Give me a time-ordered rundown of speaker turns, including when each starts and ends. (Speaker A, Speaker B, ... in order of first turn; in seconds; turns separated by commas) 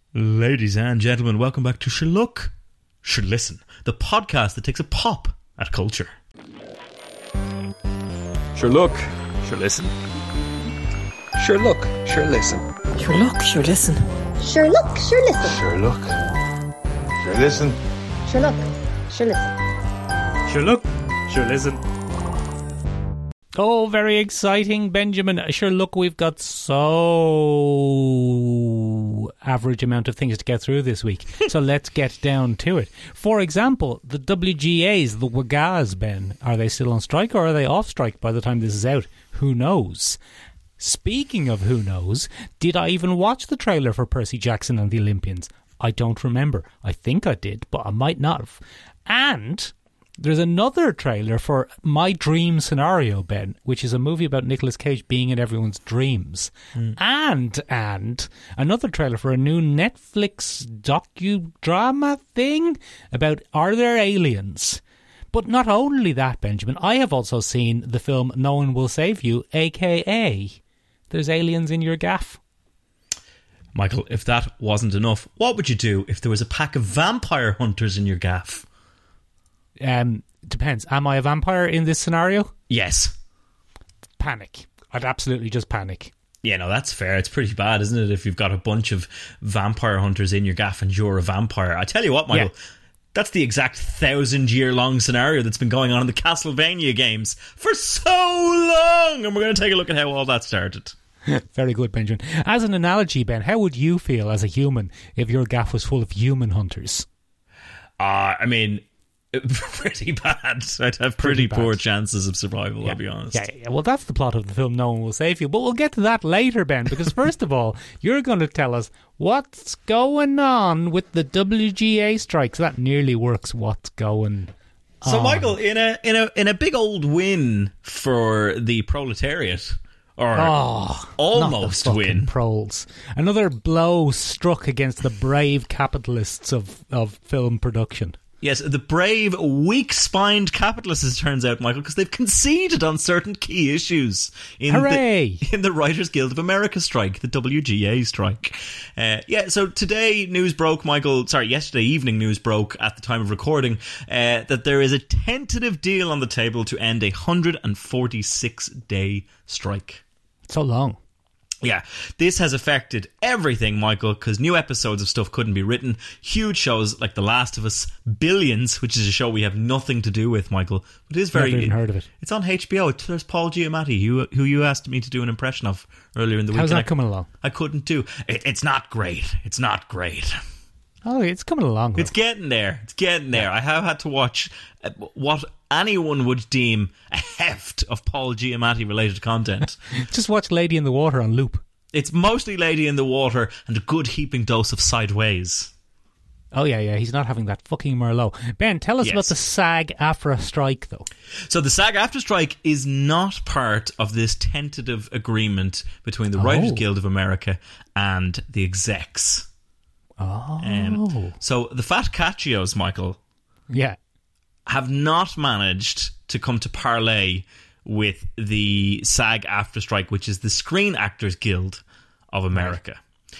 Speaker A: 0.1-6.1, Speaker A: 8.6-9.9, Speaker B: 11.4-12.6, Speaker A: 11.6-12.0, Speaker A: 13.0-14.0, Speaker C: 14.4-15.6, Speaker B: 15.5-16.2, Speaker B: 17.2-17.8, Speaker C: 18.2-19.5, Speaker D: 20.5-21.8, Speaker D: 23.6-40.2, Speaker D: 40.8-70.6, Speaker D: 71.1-72.4, Speaker A: 73.7-78.6, Speaker D: 79.8-82.5, Speaker A: 82.7-83.1, Speaker D: 84.2-86.1, Speaker A: 86.4-92.5, Speaker A: 93.1-100.9, Speaker D: 101.3-107.0, Speaker A: 108.0-113.4, Speaker D: 111.2-111.8, Speaker D: 112.8-125.5, Speaker A: 125.0-130.6, Speaker D: 130.3-138.2, Speaker A: 131.1-132.3, Speaker A: 138.4-160.0, Speaker D: 144.7-145.4, Speaker D: 160.5-161.0, Speaker A: 161.6-176.9, Speaker D: 171.3-172.1, Speaker D: 176.5-177.3, Speaker A: 177.4-180.4, Speaker D: 181.0-182.1, Speaker A: 182.0-189.8, Speaker D: 189.9-191.6, Speaker A: 191.9-195.7, Speaker D: 196.5-201.1, Speaker A: 199.0-199.3, Speaker A: 201.5-209.5, Speaker D: 206.3-206.8, Speaker D: 210.2-211.3, Speaker A: 210.6-213.2, Speaker D: 213.7-214.0, Speaker A: 214.7-223.0